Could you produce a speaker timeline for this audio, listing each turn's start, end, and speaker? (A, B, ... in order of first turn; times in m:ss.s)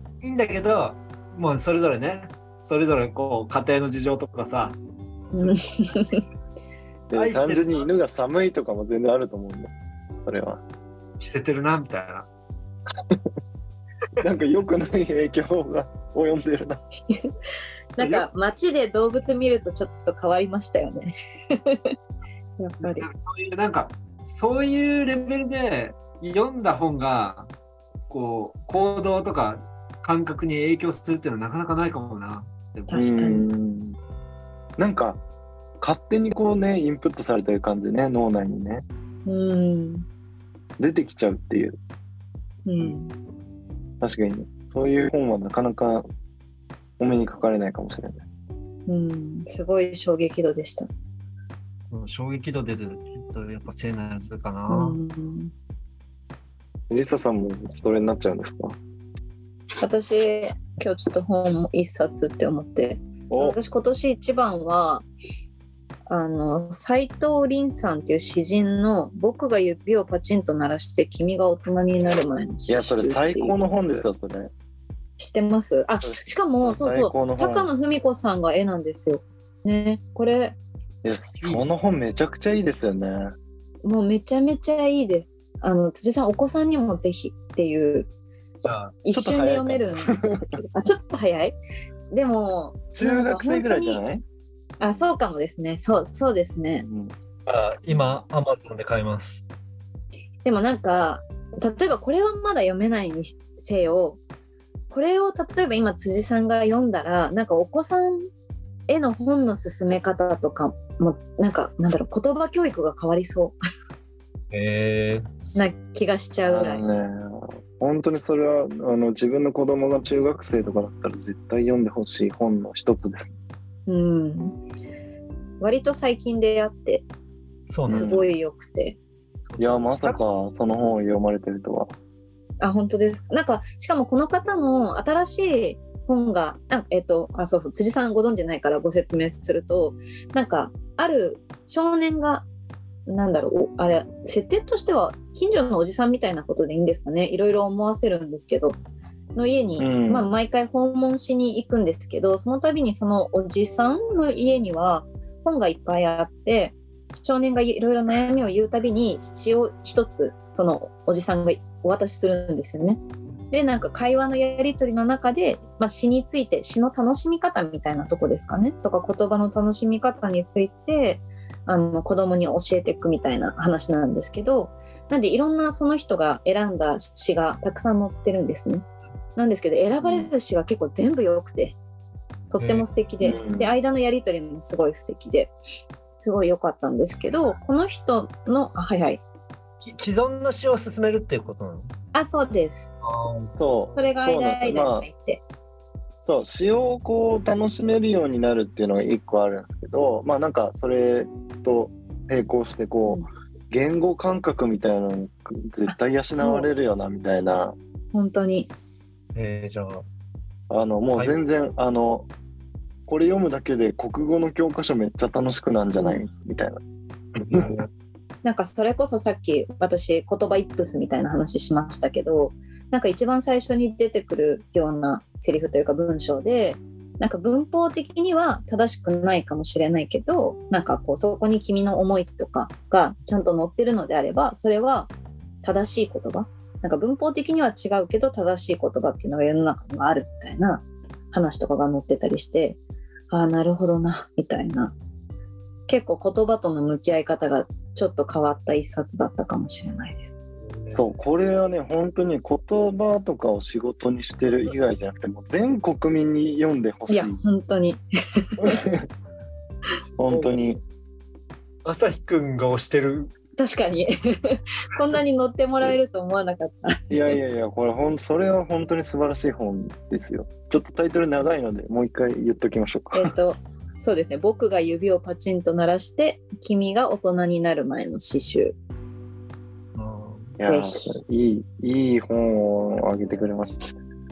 0:00.2-0:04.8 A
0:05.3-0:06.2 B
0:07.1-0:09.7 C
0:07.2-0:07.9 A
0:10.2-0:10.6 C
0:11.2-0:12.3 A
0:14.2-0:16.8 C
0:18.0-0:21.8 B
0:18.0-0:18.3 A
0:22.6-0:23.1 B
0:22.8-0:27.5 A
0:28.1-0:33.0 A
0:32.9-0:33.5 B
0:32.9-0:34.0 C
0:34.8-0:35.2 C
0:35.8-0:38.8 C
0:39.3-0:40.1 B
0:40.8-0:41.8 C
0:42.7-0:43.1 B
0:44.0-0:46.1 C
0:47.0-0:48.2 C
0:48.9-0:50.9 B
0:51.9-0:55.0 A
0:54.7-0:55.5 B
0:56.9-0:58.8 C
0:59.8-1:05.1 B
1:03.3-1:03.6 C
1:06.1-1:13.6 B
1:12.7-1:14.5 C
1:15.2-1:20.6 B
1:16.0-1:17.7 C
1:21.0-1:23.3 C
1:21.4-1:21.7 A
1:23.8-1:28.1 B
1:28.6-1:29.0 A
1:29.0-1:31.6 B
1:29.1-1:30.6 C
1:32.1-1:34.0 B
1:33.0-1:34.2 C
1:34.8-1:36.9 B
1:36.8-1:37.1 C
1:37.5-1:39.4 A
1:40.4-1:44.2 B
1:44.9-1:48.3 B
1:48.9-1:53.6 B
1:54.5-1:55.4 A
1:55.6-1:56.8 B
1:56.5-2:03.3 C
2:03.9-2:04.6 B
2:05.6-2:07.1 B
2:07.7-2:08.3 A
2:07.9-2:08.3 C
2:07.9-2:09.0 B
2:09.5-2:10.2 A
2:09.6-2:11.9 C
2:12.6-2:22.5 B
2:23.1-2:28.8 B
2:29.4-3:01.8 B
2:29.8-2:30.3 C
3:00.0-3:00.3 C
3:02.5-3:05.5 B
3:02.6-3:02.9 A
3:03.2-3:03.7 C
3:06.2-3:09.2 B
3:09.8-3:11.9 A
3:12.1-3:12.9 B
3:13.0-3:14.0 A
3:13.5-3:15.1 C
3:14.0-3:15.4 B
3:16.2-3:27.8 C
3:25.9-3:26.7 B
3:28.1-3:28.7 B
3:29.4-3:30.1 A
3:30.7-3:32.3 C
3:33.1-3:36.8 C
3:36.0-3:36.2 B
3:37.4-3:37.7 C
3:37.5-3:37.9 A
3:38.4-3:55.1 B
3:55.6-4:05.0 B
4:05.9-4:10.3 B
4:10.6-4:11.0 A
4:10.9-4:17.4 C
4:17.1-4:18.8 B
4:18.6-4:19.1 C
4:20.1-4:20.5 A
4:20.2-4:20.8 C
4:21.8-4:23.3 A
4:23.6-4:27.1 B
4:27.1-4:33.3 C
4:33.1-4:38.8 B
4:40.0-4:40.6 A
4:40.6-4:44.0 C
4:40.6-4:41.2 B